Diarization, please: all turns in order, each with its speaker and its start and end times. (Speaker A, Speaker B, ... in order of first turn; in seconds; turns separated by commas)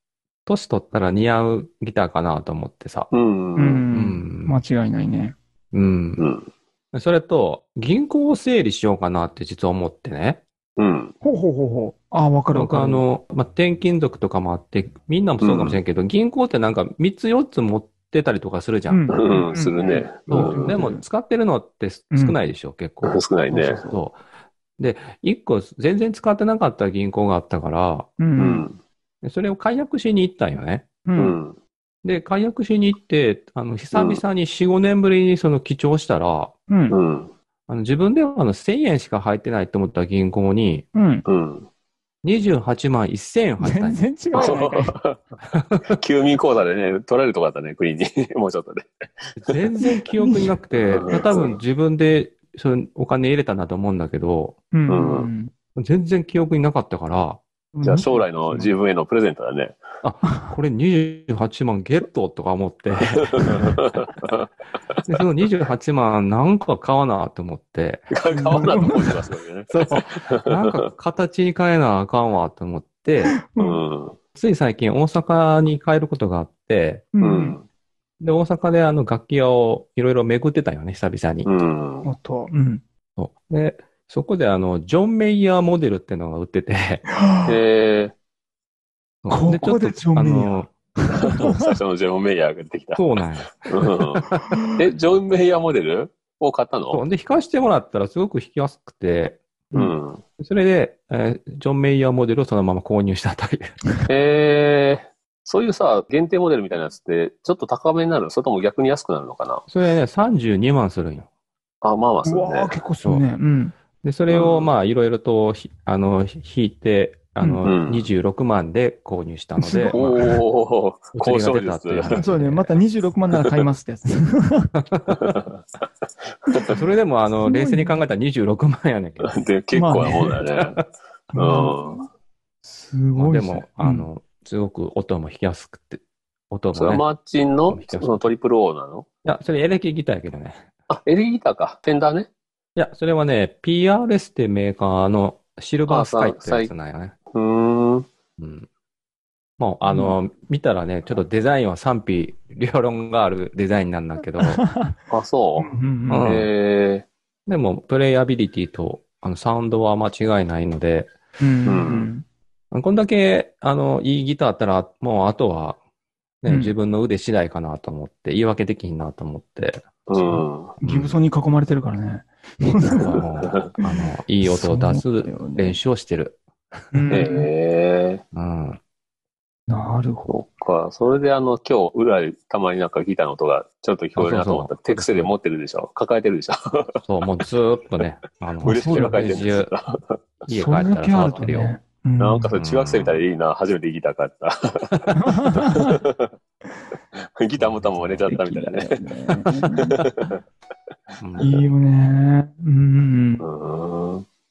Speaker A: 0.5-3.1, Speaker B: 3.1-3.8, Speaker C: 3.5-5.3, Speaker A: 3.9-4.5, Speaker A: 5.7-6.2, Speaker B: 6.2-6.5, Speaker A: 6.9-10.4, Speaker B: 10.8-11.1, Speaker C: 11.2-13.0, Speaker A: 12.5-19.1, Speaker B: 15.4-15.8, Speaker C: 18.9-21.0, Speaker B: 19.1-20.8, Speaker A: 20.3-24.2, Speaker C: 22.1-22.4, Speaker B: 23.0-23.8, Speaker C: 23.5-23.9, Speaker A: 24.8-28.1, Speaker C: 28.2-28.6, Speaker B: 28.4-28.8, Speaker A: 29.2-30.9, Speaker C: 31.1-31.4, Speaker B: 31.1-31.6, Speaker A: 32.0-36.5, Speaker B: 33.9-34.2, Speaker C: 36.7-37.0, Speaker B: 36.9-37.3, Speaker A: 37.7-40.9, Speaker C: 40.9-41.2, Speaker B: 41.2-41.7, Speaker A: 42.2-44.5, Speaker C: 43.6-44.9, Speaker B: 44.3-45.2, Speaker A: 45.5-45.9, Speaker B: 45.9-48.9, Speaker A: 49.4-54.6, Speaker C: 49.8-50.5, Speaker B: 50.8-51.6, Speaker C: 54.7-55.5, Speaker B: 54.9-55.3, Speaker A: 55.8-57.4, Speaker C: 57.7-58.2, Speaker B: 57.8-59.8, Speaker A: 60.0-63.8, Speaker C: 60.2-60.5, Speaker B: 63.1-65.0, Speaker A: 65.0-68.1, Speaker B: 68.1-70.8, Speaker C: 68.3-69.1, Speaker A: 69.7-73.3, Speaker C: 73.3-73.8, Speaker B: 73.6-74.2, Speaker A: 74.3-77.0, Speaker C: 77.1-77.6, Speaker B: 77.2-77.6, Speaker A: 78.2-81.5, Speaker B: 81.4-82.1, Speaker C: 82.0-82.8, Speaker A: 83.2-87.0, Speaker C: 87.1-87.6, Speaker B: 87.5-88.1, Speaker A: 89.2-90.7, Speaker C: 89.3-91.7, Speaker B: 91.1-97.0, Speaker A: 93.0-94.6, Speaker C: 94.5-94.8, Speaker A: 96.9-99.4, Speaker B: 99.7-100.2, Speaker A: 100.4-103.7, Speaker B: 104.1-109.7, Speaker A: 109.7-111.3, Speaker B: 111.8-112.8, Speaker C: 112.2-113.7, Speaker A: 114.0-120.2, Speaker B: 114.3-114.7, Speaker C: 117.4-117.7, Speaker B: 117.6-118.1, Speaker C: 119.6-120.1, Speaker B: 119.9-122.2, Speaker A: 121.1-122.7, Speaker C: 122.1-124.7, Speaker A: 124.9-125.3, Speaker B: 125.1-125.6, Speaker A: 126.7-129.3, Speaker C: 127.4-128.0, Speaker B: 129.2-130.8, Speaker C: 129.7-130.4, Speaker C: 131.3-132.0, Speaker B: 131.3-132.0, Speaker C: 132.6-134.1, Speaker A: 133.2-137.0, Speaker B: 136.7-139.1, Speaker A: 137.7-138.3, Speaker A: 139.2-140.7, Speaker B: 140.9-142.3, Speaker A: 142.8-147.1, Speaker B: 145.9-146.7, Speaker B: 147.3-148.1, Speaker A: 148.4-148.7, Speaker A: 149.6-154.6, Speaker C: 149.9-150.2, Speaker C: 154.4-154.9, Speaker B: 155.1-155.7, Speaker C: 155.6-156.3, Speaker A: 156.1-156.5, Speaker B: 156.2-157.1, Speaker A: 157.5-161.1, Speaker C: 161.4-162.2, Speaker B: 161.7-162.1, Speaker A: 162.7-165.8, Speaker A: 166.4-170.1, Speaker C: 166.5-166.7, Speaker B: 170.1-170.7, Speaker C: 170.2-173.2, Speaker A: 170.8-171.2, Speaker A: 172.9-176.4, Speaker B: 173.2-173.7, Speaker C: 173.8-175.8, Speaker C: 176.9-177.5, Speaker B: 177.1-178.2, Speaker A: 178.3-178.8, Speaker C: 179.7-180.3, Speaker B: 180.3-187.0, Speaker A: 184.2-185.3, Speaker A: 187.0-189.7, Speaker C: 188.6-189.2, Speaker B: 188.6-190.2, Speaker A: 190.5-191.7, Speaker C: 190.5-192.5, Speaker B: 192.2-196.3, Speaker A: 192.6-193.2, Speaker C: 195.2-196.0, Speaker B: 197.2-199.0, Speaker A: 197.6-198.4, Speaker C: 198.3-200.0, Speaker B: 199.8-200.4, Speaker A: 201.2-201.6, Speaker C: 201.4-203.4, Speaker B: 203.4-204.2